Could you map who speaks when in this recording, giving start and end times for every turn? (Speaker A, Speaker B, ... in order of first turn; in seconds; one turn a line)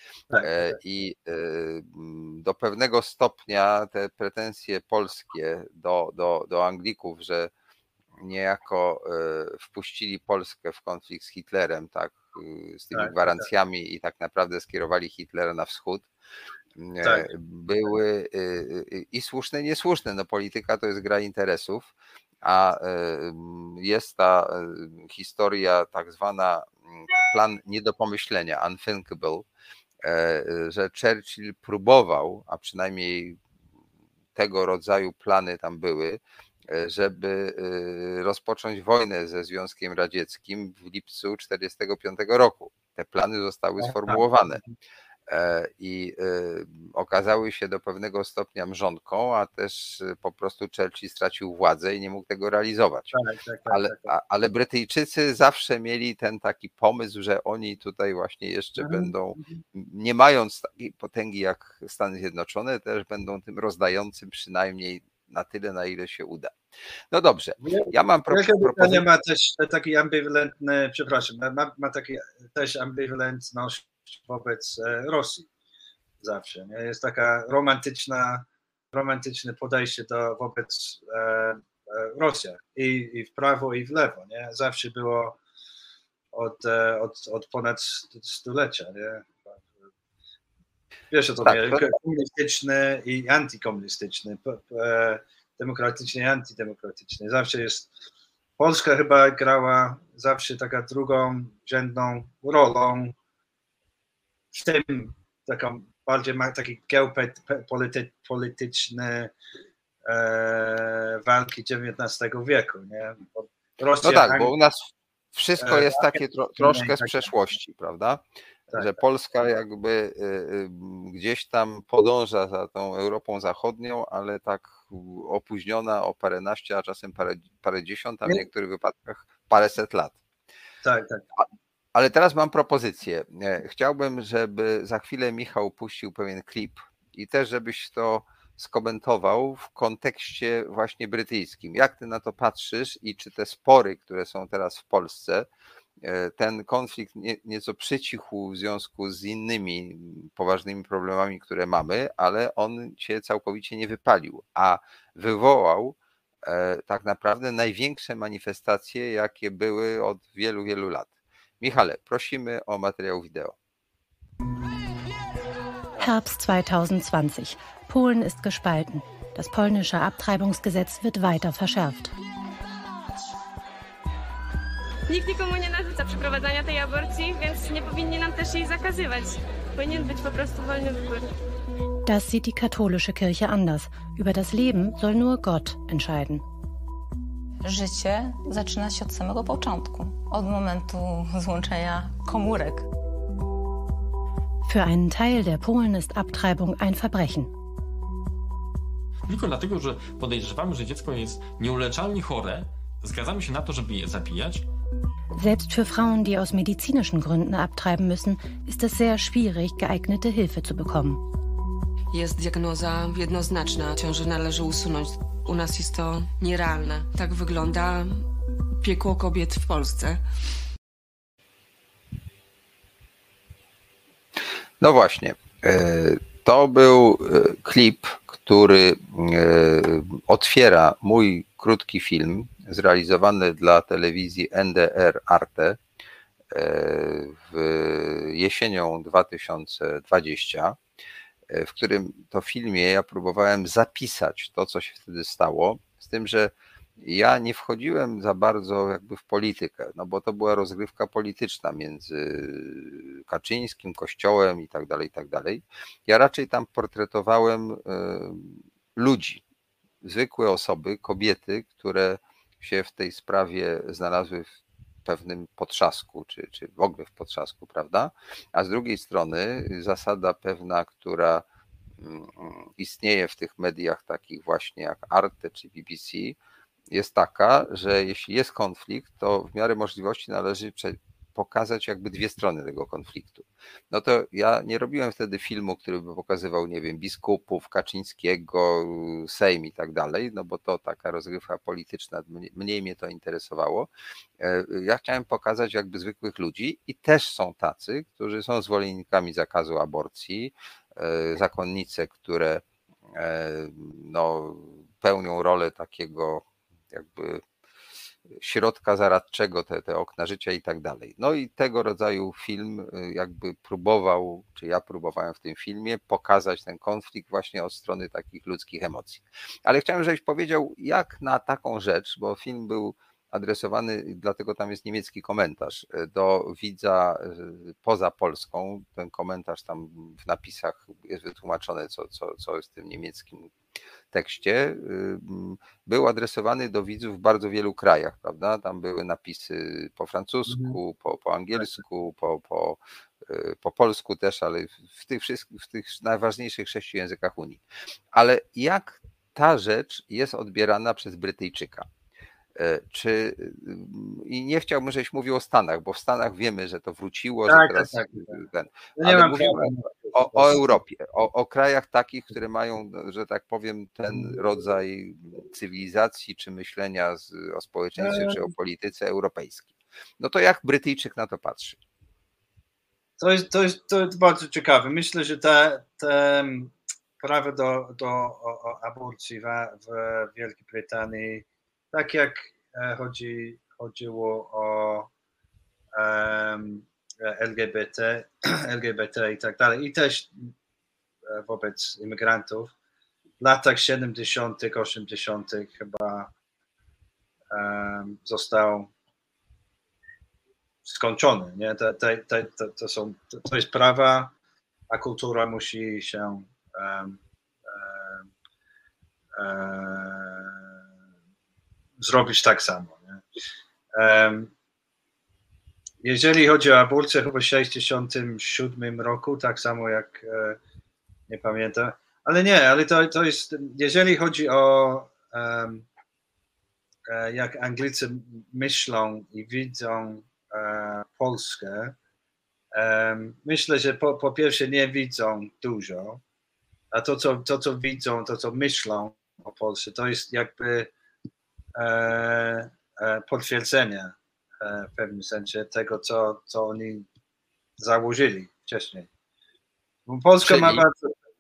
Speaker A: 0.3-0.8
Speaker B: 0.4-7.5
Speaker B: 8.2-16.1
Speaker A: 12.9-13.5
Speaker B: 16.8-29.5
Speaker A: 17.0-17.3
Speaker B: 30.0-33.4
Speaker B: 34.4-44.6
Speaker A: 43.8-44.7
Speaker B: 45.3-66.5
Speaker A: 53.1-54.1
Speaker A: 58.8-59.6
Speaker B: 67.1-69.1
Speaker A: 67.6-75.5
Speaker A: 76.2-85.4
Speaker A: 86.3-89.8
Speaker A: 91.1-97.9
Speaker B: 91.4-91.8
Speaker A: 98.6-103.2
Speaker A: 104.5-109.3
Speaker A: 110.0-114.5
Speaker B: 114.0-118.2
Speaker A: 115.6-117.4
Speaker B: 118.8-130.2
Speaker A: 130.8-131.2
Speaker B: 131.4-145.5
Speaker B: 146.0-163.6
Speaker C: 166.0-172.1
Speaker D: 175.1-181.3
Speaker C: 182.1-186.4
Speaker E: 187.6-192.9
Speaker C: 194.7-197.5
Speaker F: 199.3-204.7
Speaker C: 205.4-211.2
Speaker G: 212.1-218.1
Speaker G: 218.8-220.1
Speaker B: 224.8-235.8
Speaker B: 236.5-240.8
Speaker B: 241.5-259.4
Speaker B: 260.0-264.5
Speaker B: 265.1-271.4
Speaker B: 272.0-276.4
Speaker B: 276.9-293.9
Speaker B: 294.4-307.4
Speaker B: 308.4-333.5
Speaker B: 334.1-347.6
Speaker A: 340.5-340.8
Speaker B: 348.1-351.9
Speaker B: 352.6-371.8
Speaker A: 357.5-358.4
Speaker A: 359.0-360.8
Speaker A: 364.1-364.4
Speaker A: 368.0-368.5
Speaker A: 373.2-385.1
Speaker A: 385.9-390.5
Speaker A: 391.3-392.7
Speaker A: 393.4-396.3
Speaker A: 397.5-398.9
Speaker A: 400.8-404.3
Speaker A: 404.9-408.3
Speaker A: 409.4-410.7
Speaker A: 412.0-413.2
Speaker A: 413.9-414.5
Speaker A: 416.0-420.6
Speaker A: 421.3-425.9
Speaker A: 427.1-432.0
Speaker A: 432.7-436.2
Speaker A: 436.9-440.9
Speaker A: 441.8-447.1
Speaker A: 447.8-449.1
Speaker A: 450.1-451.2
Speaker B: 450.4-450.8